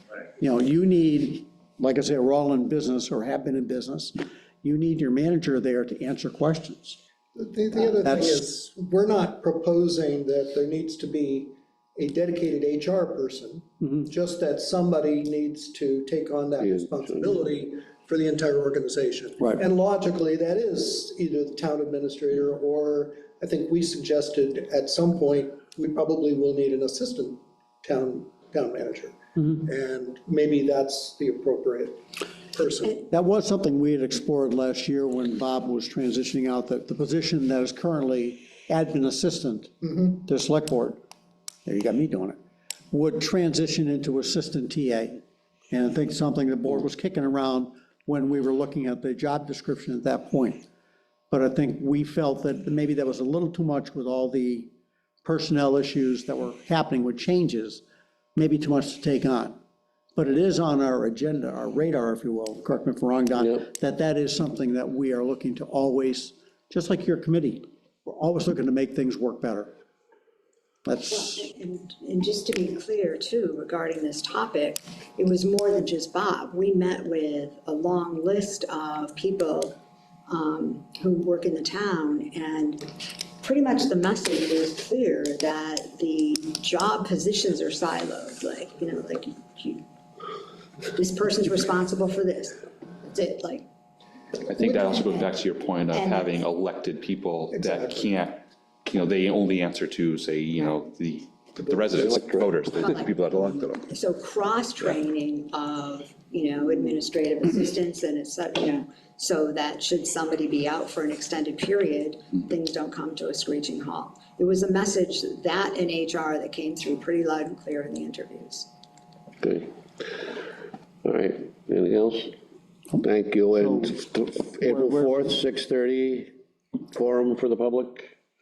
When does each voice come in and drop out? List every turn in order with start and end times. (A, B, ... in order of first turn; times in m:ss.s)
0:00.4-0:07.0 A
0:07.3-0:32.0 B
0:07.8-0:08.4 A
0:16.6-0:17.4 C
0:32.5-0:33.0 B
0:33.1-0:41.0 A
0:41.6-0:42.4 A
0:42.9-0:50.6 A
0:51.3-0:54.7 A
0:55.2-0:57.8 A
0:58.4-0:59.6 A
1:00.1-1:09.7 A
1:10.8-1:11.5 A
1:11.1-1:19.8 D
1:20.3-1:29.8 D
1:30.9-1:33.7 D
1:34.4-1:43.9 E
1:34.6-1:35.2 D
1:35.9-1:36.4 D
1:37.5-1:38.1 B
1:41.9-1:42.6 C
1:42.8-1:43.1 D
1:43.9-1:58.7 D
1:59.4-2:00.4 C
2:01.0-2:02.3 C
2:03.0-2:06.3 C
2:03.6-2:05.4 A
2:06.9-2:08.1 C